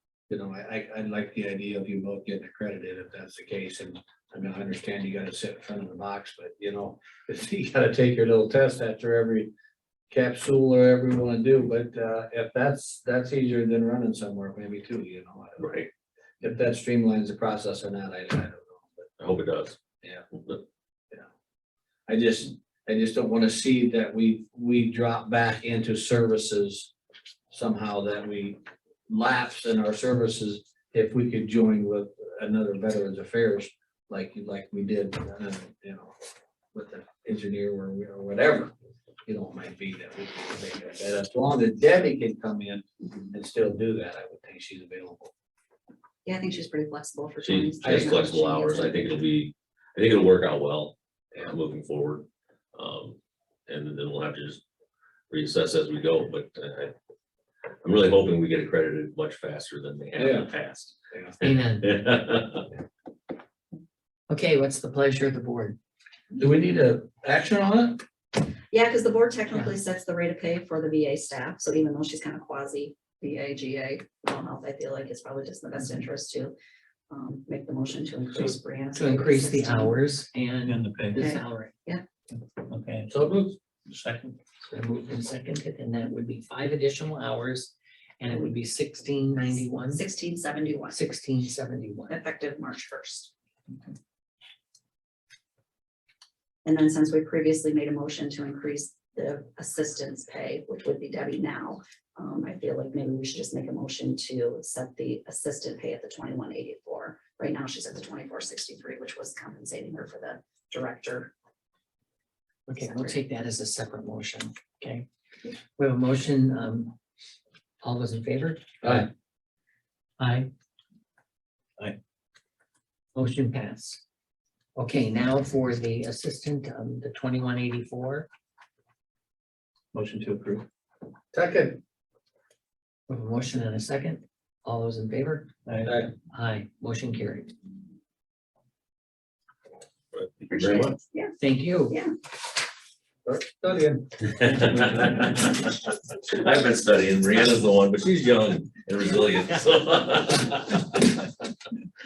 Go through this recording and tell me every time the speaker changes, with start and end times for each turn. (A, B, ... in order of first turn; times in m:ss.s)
0:00.3-0:09.5 A
0:10.1-0:15.9 A
0:16.4-0:19.1 A
0:19.2-0:19.8 B
0:22.1-0:26.9 A
0:27.5-0:36.1 A
0:36.7-0:38.7 A
0:39.3-0:45.3 A
0:46.2-0:49.2 C
0:47.4-0:54.6 B
0:47.8-0:48.1 A
0:55.3-0:56.9 B
0:57.8-1:00.9 B
1:00.2-1:00.5 A
1:01.4-1:02.0 D
1:01.8-1:02.6 B
1:04.3-1:05.8 D
1:06.4-1:08.0 A
1:08.7-1:16.6 C
1:17.1-1:20.0 C
1:18.9-1:21.7 D
1:20.6-1:21.2 E
1:21.2-1:22.0 C
1:22.3-1:23.1 E
1:23.1-1:23.6 A
1:23.9-1:24.4 E
1:24.6-1:30.0 D
1:29.9-1:31.0 C
1:30.9-1:32.2 D
1:32.1-1:33.3 C
1:36.6-1:51.3 C
1:52.7-1:55.1 D
1:52.8-1:53.2 C
1:55.8-1:57.0 D
1:57.8-1:59.1 D
1:58.8-1:59.1 A
2:00.2-2:00.5 D
2:03.2-2:04.0 D
2:04.8-2:08.3 D
2:09.9-2:10.7 E
2:11.3-2:11.8 A
2:13.1-2:15.5 D
2:15.7-2:16.0 E
2:15.8-2:16.1 A
2:16.3-2:17.5 D
2:20.1-2:21.0 B
2:20.5-2:21.3 C
2:21.4-2:22.0 D
2:23.2-2:24.1 A
2:24.4-2:25.8 B
2:26.3-2:31.0 B